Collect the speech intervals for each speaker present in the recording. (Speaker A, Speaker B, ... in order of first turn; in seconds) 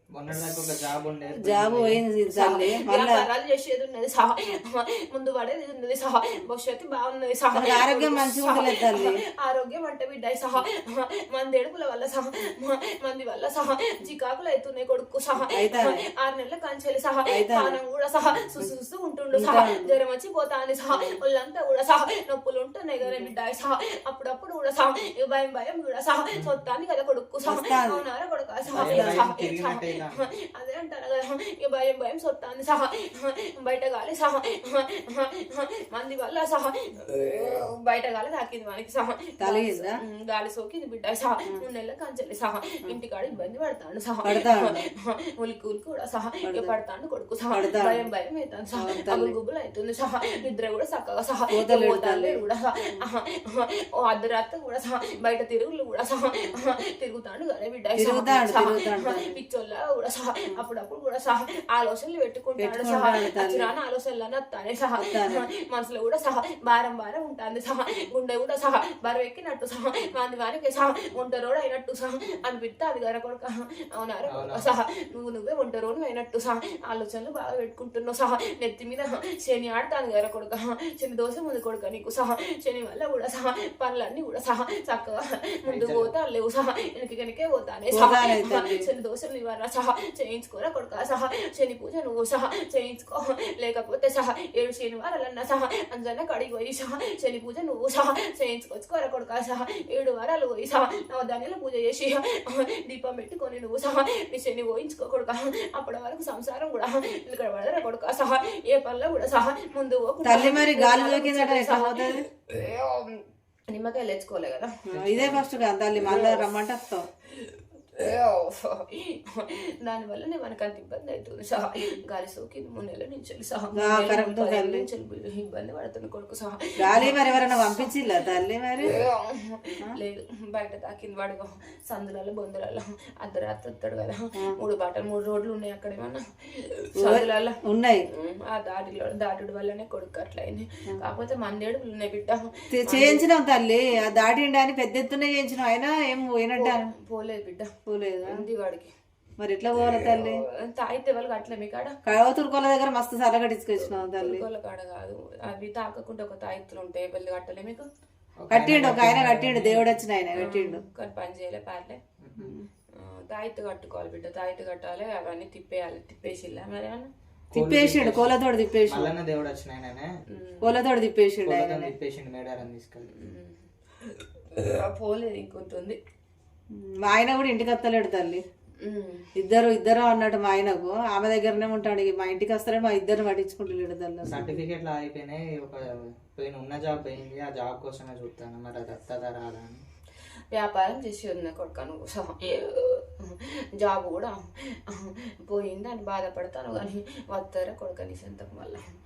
Speaker A: 0.1-2.0, 28.7-30.3, 74.3-74.7, 85.7-86.1, 114.9-115.5, 158.4-160.0, 162.2-162.5, 167.5-170.1, 171.4-173.1, 184.2-189.8
Speaker B: 1.4-3.2, 7.5-9.2, 15.5-16.0, 17.3-17.8, 19.3-20.0, 20.9-21.2, 23.0-23.3, 27.5-28.0, 28.8-29.2, 39.4-40.0, 44.2-44.9, 46.4-46.7, 47.5-48.1, 48.8-49.4, 51.5-53.0, 58.0-59.4, 62.6-63.7, 65.0-65.4, 87.9-88.9, 110.2-112.3, 114.9-117.1, 123.8-124.9, 126.8-129.0, 137.0-138.1, 142.7-146.9, 147.9-148.4, 149.4-150.4, 152.1-154.4, 158.5-160.8, 162.4-162.7, 167.5-169.1, 170.6-171.9, 176.7-178.4, 179.4-184.6
Speaker C: 2.3-114.8, 116.0-116.4, 117.4-127.9, 128.8-143.2, 146.6-147.7, 148.2-148.9, 150.0-152.2, 153.8-157.9, 160.3-162.0, 162.9-167.1, 170.3-170.7, 173.0-176.0, 178.8-179.3, 190.5-198.8